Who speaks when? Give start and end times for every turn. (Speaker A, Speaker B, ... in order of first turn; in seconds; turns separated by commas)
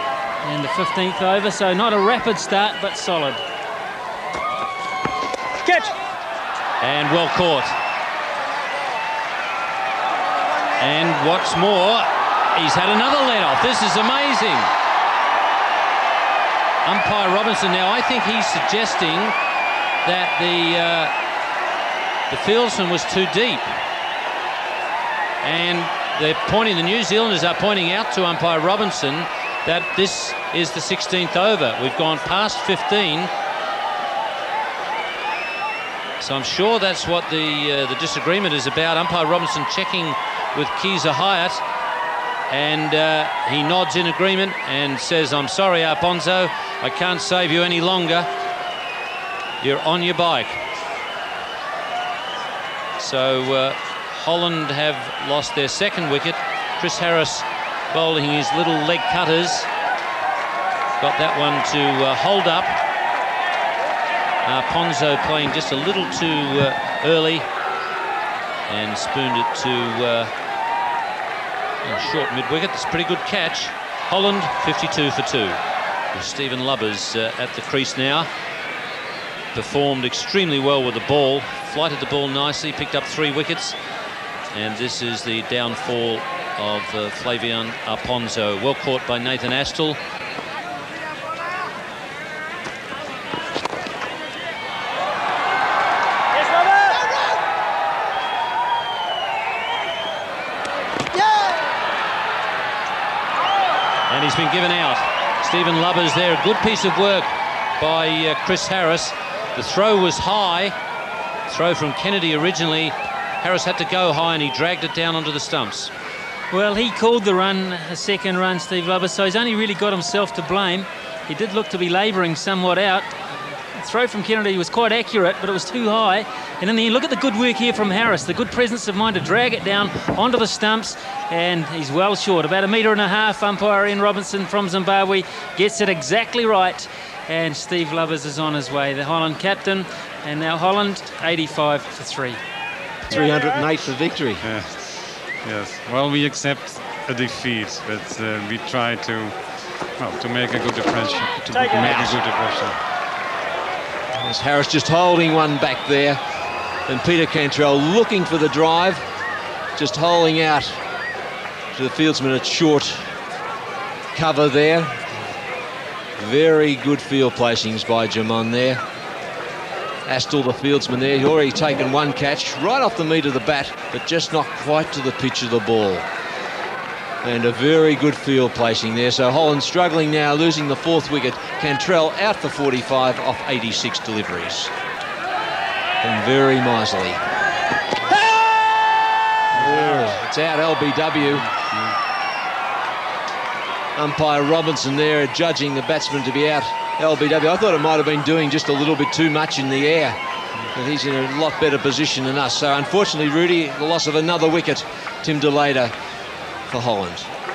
Speaker A: 0.4-3.4, Speaker A: 5.6-5.9, Speaker B: 6.8-7.7, Speaker B: 10.8-14.7, Speaker B: 16.8-19.3, Speaker B: 20.0-21.1, Speaker B: 22.3-23.7, Speaker B: 25.4-33.3, Speaker B: 36.2-41.6, Speaker B: 42.5-48.3, Speaker B: 49.6-50.6, Speaker B: 53.0-59.7, Speaker B: 61.0-62.8, Speaker B: 64.4-67.5, Speaker B: 68.7-70.3, Speaker B: 71.8-75.6, Speaker B: 76.1-78.3, Speaker B: 79.5-83.8, Speaker B: 84.5-90.0, Speaker B: 104.1-110.7, Speaker B: 111.5-115.9, Speaker A: 116.5-123.1, Speaker A: 123.7-142.4, Speaker C: 143.0-144.5, Speaker D: 144.4-149.4, Speaker D: 150.0-152.8, Speaker C: 151.9-152.1, Speaker C: 154.1-156.2, Speaker C: 156.8-159.0, Speaker C: 159.8-160.8, Speaker C: 161.7-163.1, Speaker C: 164.1-165.2, Speaker C: 166.2-168.8, Speaker C: 170.0-176.1, Speaker C: 177.2-184.7, Speaker C: 186.0-187.2, Speaker D: 189.5-190.2, Speaker C: 189.5-191.5, Speaker D: 191.4-191.9, Speaker C: 193.9-200.2, Speaker C: 200.7-205.9, Speaker C: 206.7-207.3